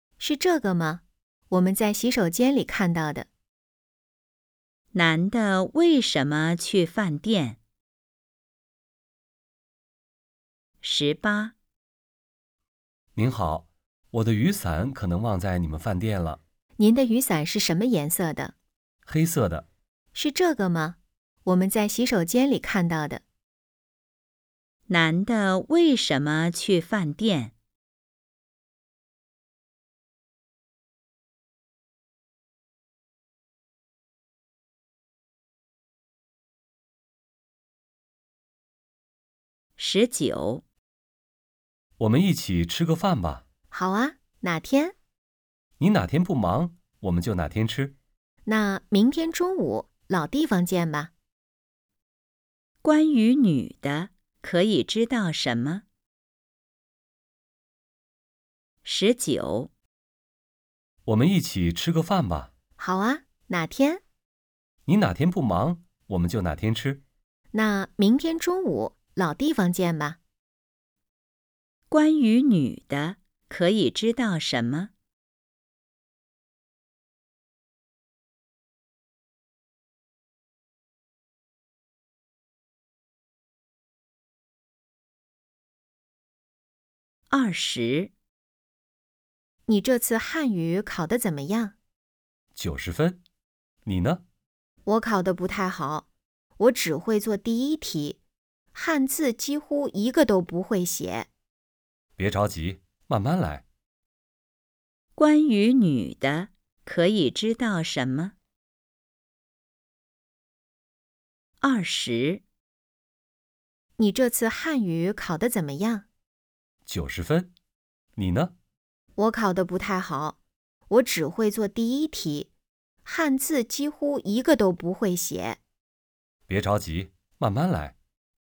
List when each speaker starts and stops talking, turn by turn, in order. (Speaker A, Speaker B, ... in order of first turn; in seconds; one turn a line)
Speaker A: 0.2-3.3
Speaker B: 4.9-7.6
Speaker B: 10.8-11.6
Speaker C: 13.2-16.4
Speaker A: 16.8-18.5
Speaker C: 19.1-19.7
Speaker A: 20.1-23.2
Speaker B: 24.9-27.5
Speaker B: 39.8-40.6
Speaker C: 42.0-43.4
Speaker A: 43.7-44.9
Speaker C: 45.8-48.0
Speaker A: 48.5-51.1
Speaker B: 52.8-55.8
Speaker B: 58.9-59.7
Speaker C: 61.1-62.5
Speaker A: 62.8-64.0
Speaker C: 64.9-67.0
Speaker A: 67.5-70.2
Speaker B: 71.9-74.9
Speaker B: 87.3-88.1
Speaker A: 89.7-91.7
Speaker C: 92.5-93.2
Speaker C: 93.8-94.2
Speaker A: 94.9-96.1
Speaker A: 96.6-98.2
Speaker A: 98.7-101.3
Speaker C: 102.2-103.7
Speaker B: 105.2-108.3
Speaker B: 111.6-112.4
Speaker A: 114.0-116.0
Speaker C: 116.9-117.5
Speaker C: 118.2-118.5
Speaker A: 119.2-120.4
Speaker A: 120.9-122.5
Speaker A: 123.0-125.6
Speaker C: 126.5-128.0